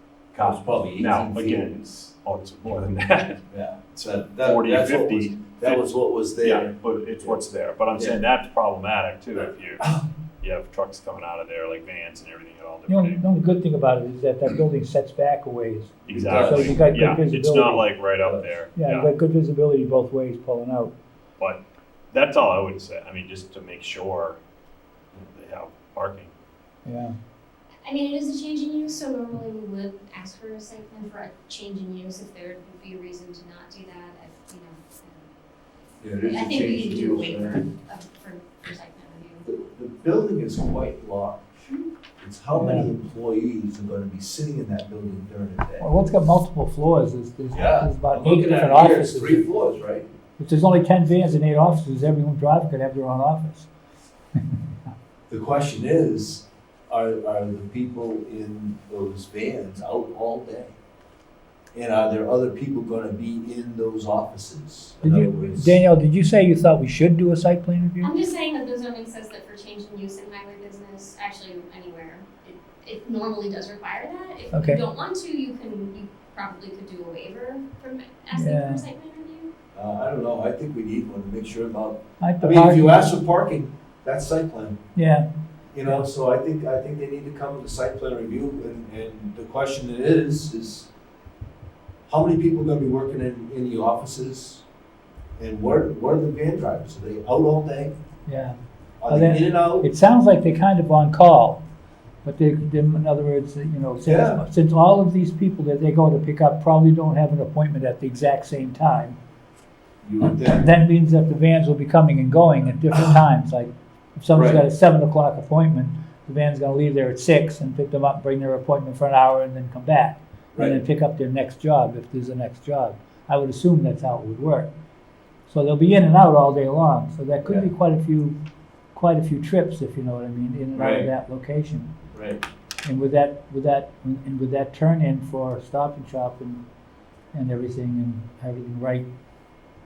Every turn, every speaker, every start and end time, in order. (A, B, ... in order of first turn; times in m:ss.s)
0:00.3-0:03.4 A
0:00.4-0:01.7 B
0:03.5-0:07.4 B
0:04.4-0:05.9 A
0:06.4-0:09.9 A
0:09.8-0:10.1 B
0:10.4-0:13.3 A
0:12.9-0:17.9 C
0:16.1-0:19.1 A
0:16.1-0:16.8 B
0:18.2-0:18.5 B
0:18.8-0:20.9 C
0:22.1-0:24.4 A
0:25.1-0:26.3 A
0:26.9-0:27.2 C
0:27.8-0:35.3 D
0:36.0-0:37.6 B
0:36.2-0:39.5 D
0:39.4-0:41.5 B
0:42.2-0:45.9 B
0:42.5-0:42.9 C
0:45.8-0:49.5 C
0:47.5-0:50.1 B
0:50.4-0:53.7 C
0:55.3-1:00.8 B
1:01.7-1:05.8 B
1:05.0-1:08.1 C
1:08.0-1:19.5 D
1:14.5-1:14.8 C
1:18.3-1:18.8 C
1:19.7-1:24.8 B
1:22.2-1:23.1 C
1:25.0-1:25.3 C
1:25.7-1:30.9 B
1:32.1-1:34.6 B
1:35.4-1:38.0 B
1:38.3-1:38.6 C
1:39.0-1:39.9 B
1:39.1-1:41.6 C
1:42.2-1:49.2 C
1:44.1-1:44.4 B
1:50.0-1:50.7 B
1:50.5-2:04.7 C
1:52.9-1:53.2 B
1:54.4-1:54.6 B
2:00.5-2:00.8 B
2:05.5-2:08.4 C
2:07.4-2:07.7 B
2:09.0-2:11.9 C
2:10.8-2:11.1 B
2:12.1-2:12.4 B
2:12.8-2:16.6 C
2:17.3-2:19.1 C